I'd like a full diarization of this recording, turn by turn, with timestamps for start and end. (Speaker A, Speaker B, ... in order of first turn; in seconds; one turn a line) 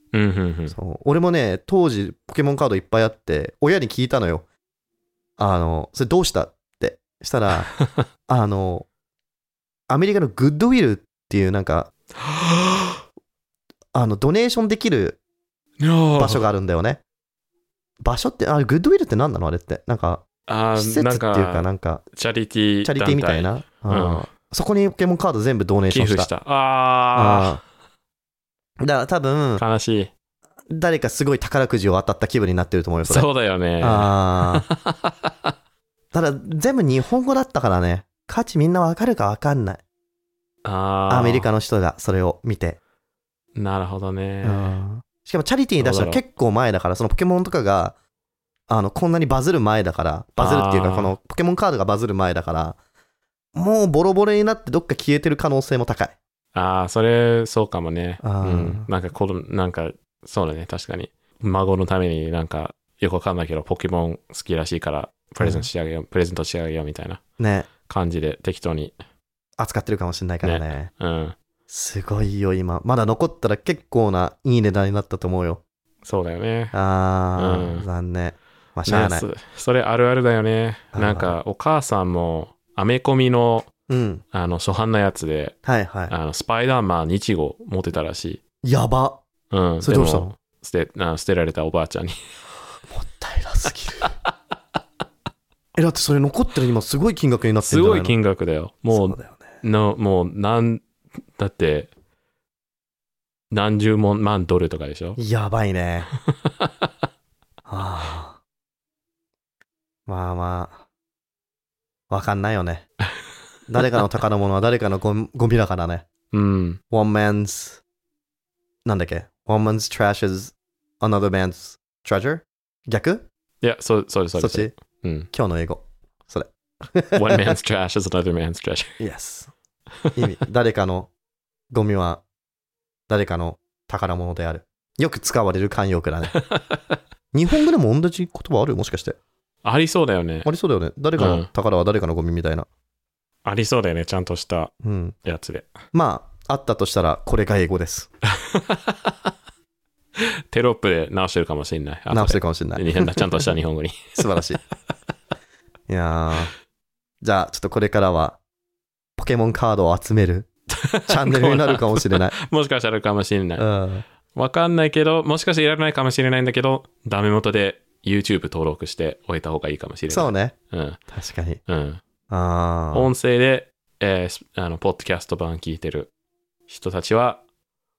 Speaker A: 0.1-0.8
Speaker B: 0.7-4.4
Speaker B: 5.4-7.7
Speaker B: 8.3-8.9
Speaker B: 9.9-11.9
Speaker A: 12.3-12.9
Speaker B: 13.9-15.2
Speaker A: 15.8-16.4
Speaker B: 16.2-17.0
Speaker B: 18.0-22.0
Speaker A: 20.5-24.2
Speaker B: 22.8-26.3
Speaker A: 25.9-27.6
Speaker B: 27.1-27.6
Speaker B: 28.8-29.6
Speaker A: 29.6-30.1
Speaker B: 30.7-33.3
Speaker A: 33.0-35.5
Speaker B: 33.8-34.6
Speaker B: 36.1-39.8
Speaker A: 40.6-41.5
Speaker B: 41.1-42.8
Speaker A: 43.5-44.8
Speaker B: 44.4-48.0
Speaker A: 45.8-46.2
Speaker B: 48.7-52.8
Speaker A: 50.4-51.1
Speaker B: 53.5-56.2
Speaker A: 56.5-67.2
Speaker B: 58.2-58.9
Speaker B: 65.4-65.7
Speaker B: 67.4-67.7
Speaker A: 67.9-68.9
Speaker B: 69.6-70.9
Speaker A: 70.4-71.3
Speaker B: 71.7-75.6
Speaker A: 76.0-76.7
Speaker B: 76.7-79.2
Speaker A: 77.4-77.8
Speaker A: 78.8-83.7
Speaker B: 80.9-81.4
Speaker B: 83.9-84.2
Speaker A: 84.3-85.5
Speaker B: 85.6-86.1
Speaker A: 86.1-88.4
Speaker B: 88.6-89.2
Speaker A: 89.5-92.2
Speaker B: 89.8-90.3
Speaker B: 92.9-94.1
Speaker B: 95.8-98.1
Speaker A: 97.6-100.8
Speaker B: 98.9-99.6
Speaker A: 101.3-101.9
Speaker A: 103.5-105.2
Speaker B: 105.2-106.1
Speaker B: 107.7-108.4
Speaker B: 110.1-110.8
Speaker B: 112.1-112.9
Speaker B: 113.7-116.1
Speaker A: 116.3-116.8
Speaker B: 116.9-117.8
Speaker B: 118.8-123.2
Speaker A: 123.6-125.3
Speaker B: 124.3-124.7
Speaker B: 125.3-127.4
Speaker A: 127.1-129.0
Speaker B: 129.0-129.5
Speaker B: 130.1-131.1
Speaker B: 131.7-132.2
Speaker B: 133.1-136.4
Speaker A: 136.5-136.8
Speaker B: 137.3-139.2
Speaker A: 139.6-140.5
Speaker B: 140.4-142.7
Speaker A: 141.2-141.5
Speaker A: 143.4-144.7
Speaker B: 144.8-145.2
Speaker A: 145.2-145.7
Speaker B: 145.9-148.1
Speaker A: 148.5-149.1
Speaker A: 150.5-154.2
Speaker B: 152.1-153.5
Speaker B: 154.1-154.6
Speaker B: 155.9-156.5
Speaker B: 157.2-158.4
Speaker B: 159.2-160.5
Speaker A: 160.8-163.7
Speaker B: 161.1-162.3
Speaker B: 163.6-164.0
Speaker A: 164.3-171.0
Speaker B: 170.1-170.6
Speaker B: 171.1-171.6
Speaker A: 171.7-172.0
Speaker B: 172.3-173.1
Speaker A: 172.9-176.1
Speaker A: 176.7-177.4